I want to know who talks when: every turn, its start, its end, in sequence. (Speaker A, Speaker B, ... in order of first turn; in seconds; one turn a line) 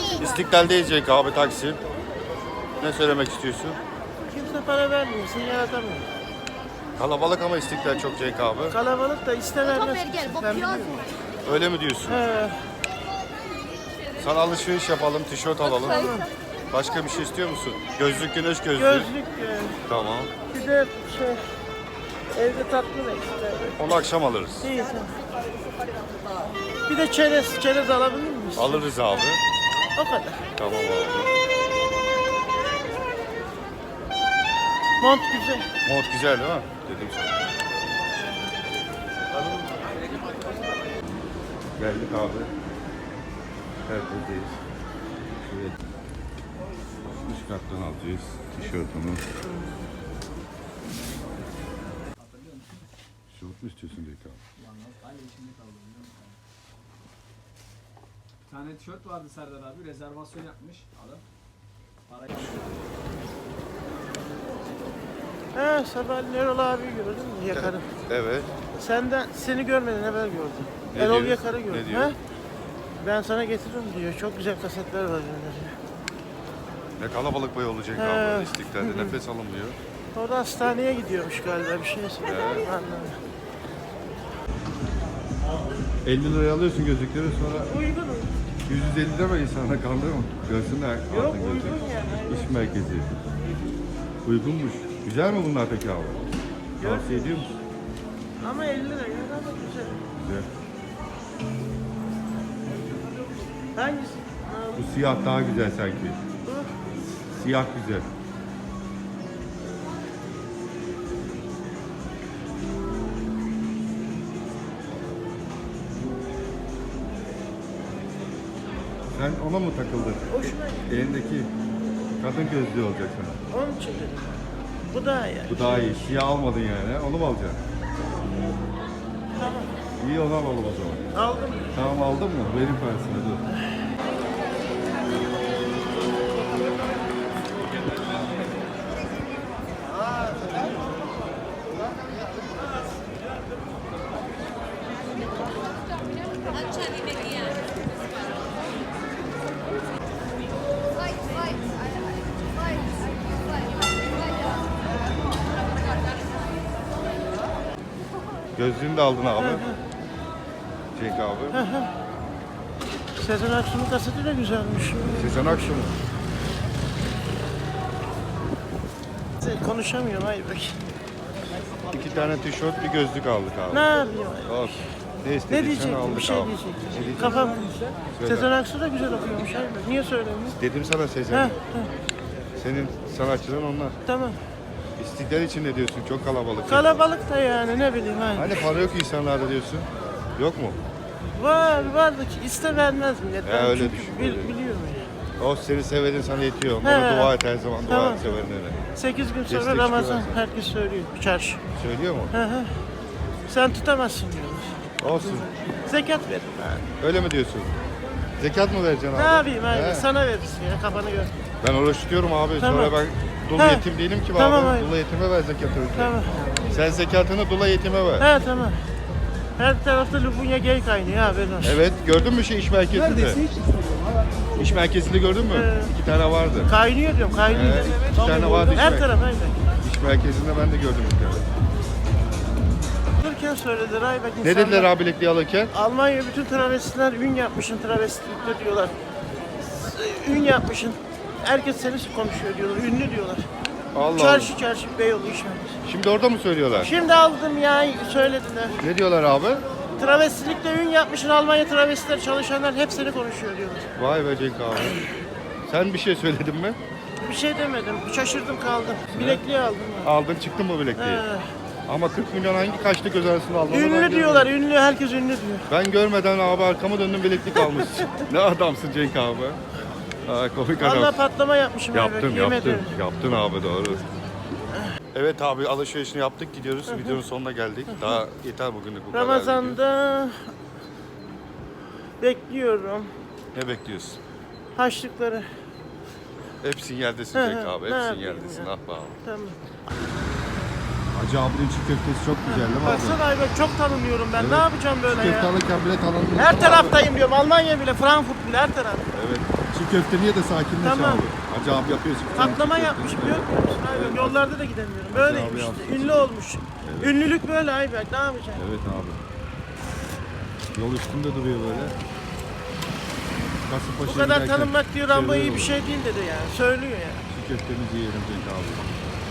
Speaker A: 0.2-1.8
Speaker A: 2.8-3.8
Speaker B: 4.3-6.1
Speaker A: 7.0-8.8
Speaker B: 8.7-11.0
Speaker A: 11.4-12.2
Speaker B: 12.1-12.6
Speaker A: 14.2-16.2
Speaker B: 15.9-16.3
Speaker A: 16.7-19.1
Speaker B: 18.8-19.8
Speaker A: 19.9-20.3
Speaker B: 20.5-21.4
Speaker B: 22.3-23.8
Speaker A: 23.8-24.7
Speaker B: 24.6-25.1
Speaker B: 26.9-28.8
Speaker A: 28.6-29.4
Speaker B: 29.9-30.5
Speaker A: 30.6-31.3
Speaker B: 35.0-35.7
Speaker A: 35.9-37.3
Speaker A: 41.8-42.5
Speaker A: 43.9-44.6
Speaker A: 45.4-45.8
Speaker A: 47.1-49.2
Speaker C: 52.2-52.8
Speaker A: 53.3-54.4
Speaker C: 54.6-56.4
Speaker C: 58.5-61.2
Speaker C: 62.1-62.6
Speaker B: 65.5-67.9
Speaker A: 67.5-68.5
Speaker B: 68.8-72.2
Speaker A: 70.9-72.2
Speaker B: 73.0-75.8
Speaker A: 77.0-79.8
Speaker B: 78.0-79.2
Speaker B: 80.2-83.2
Speaker A: 82.2-82.7
Speaker A: 86.0-87.7
Speaker B: 87.7-88.3
Speaker A: 88.7-93.2
Speaker B: 91.1-92.3
Speaker A: 94.2-96.2
Speaker B: 96.8-97.5
Speaker A: 96.8-97.6
Speaker B: 98.4-100.0
Speaker A: 100.2-100.5
Speaker B: 103.8-104.9
Speaker A: 104.8-106.2
Speaker B: 106.4-106.8
Speaker A: 107.3-108.1
Speaker A: 119.1-121.5
Speaker B: 120.3-120.9
Speaker A: 122.2-123.4
Speaker B: 123.5-125.9
Speaker A: 125.5-127.6
Speaker B: 129.3-129.7
Speaker A: 130.0-131.1
Speaker B: 131.1-131.7
Speaker A: 131.7-133.4
Speaker A: 158.6-159.6
Speaker B: 159.4-159.8
Speaker A: 160.9-161.6
Speaker B: 161.5-161.9
Speaker B: 163.2-165.7
Speaker A: 165.2-166.0
Speaker B: 169.4-170.8
Speaker A: 171.9-173.9
Speaker B: 173.7-174.8
Speaker A: 174.4-177.6
Speaker B: 175.5-177.6
Speaker A: 178.1-178.5
Speaker B: 178.2-180.6
Speaker A: 180.6-181.6
Speaker B: 181.3-181.9
Speaker A: 182.6-184.0
Speaker B: 184.1-184.4
Speaker A: 185.0-187.0
Speaker B: 186.7-188.6
Speaker A: 188.3-190.8
Speaker B: 191.4-195.1
Speaker A: 193.4-194.5
Speaker A: 195.4-198.8
Speaker B: 196.8-197.3
Speaker B: 197.9-198.4
Speaker B: 199.0-201.6
Speaker A: 199.5-200.4
Speaker A: 201.8-202.3
Speaker B: 202.3-202.8
Speaker B: 203.5-204.8
Speaker A: 205.0-205.5
Speaker B: 205.8-206.9
Speaker A: 207.0-207.8
Speaker A: 208.4-210.1
Speaker B: 209.2-211.3
Speaker A: 211.6-218.3
Speaker B: 212.6-212.9
Speaker B: 213.6-213.8
Speaker B: 214.4-214.9
Speaker B: 216.0-216.5
Speaker B: 218.2-218.8
Speaker B: 219.6-221.8
Speaker A: 221.6-223.4
Speaker A: 224.6-226.7
Speaker B: 225.5-225.9
Speaker B: 226.7-229.6
Speaker A: 227.5-229.1
Speaker A: 229.8-231.5
Speaker B: 233.2-234.9
Speaker A: 234.4-235.7
Speaker B: 235.7-238.9
Speaker B: 239.6-243.5
Speaker A: 243.9-244.5
Speaker B: 244.2-245.8
Speaker A: 245.8-246.9
Speaker B: 246.8-248.8
Speaker A: 248.8-249.7
Speaker B: 250.0-253.9
Speaker A: 254.0-255.0
Speaker A: 255.7-256.8
Speaker B: 257.2-260.1
Speaker A: 259.1-259.4
Speaker A: 260.0-261.2
Speaker B: 261.0-261.5
Speaker A: 261.9-264.5
Speaker B: 263.7-265.7
Speaker A: 265.7-269.6
Speaker A: 270.2-271.2
Speaker B: 270.8-272.9
Speaker A: 271.9-274.0
Speaker A: 275.1-279.8
Speaker B: 276.9-277.2
Speaker B: 279.1-280.5
Speaker B: 282.2-283.1
Speaker A: 283.5-284.2
Speaker B: 284.8-285.5
Speaker A: 286.6-289.2
Speaker B: 287.3-288.7
Speaker B: 289.2-289.6
Speaker A: 291.1-293.2
Speaker B: 292.5-295.5
Speaker A: 294.4-297.0
Speaker B: 296.4-299.1
Speaker A: 299.1-304.5
Speaker B: 300.8-301.2
Speaker B: 302.3-308.6
Speaker A: 305.1-306.3
Speaker A: 306.8-307.2
Speaker A: 308.6-309.2
Speaker A: 310.7-312.0
Speaker A: 313.7-315.8
Speaker B: 314.1-317.3
Speaker A: 317.3-318.9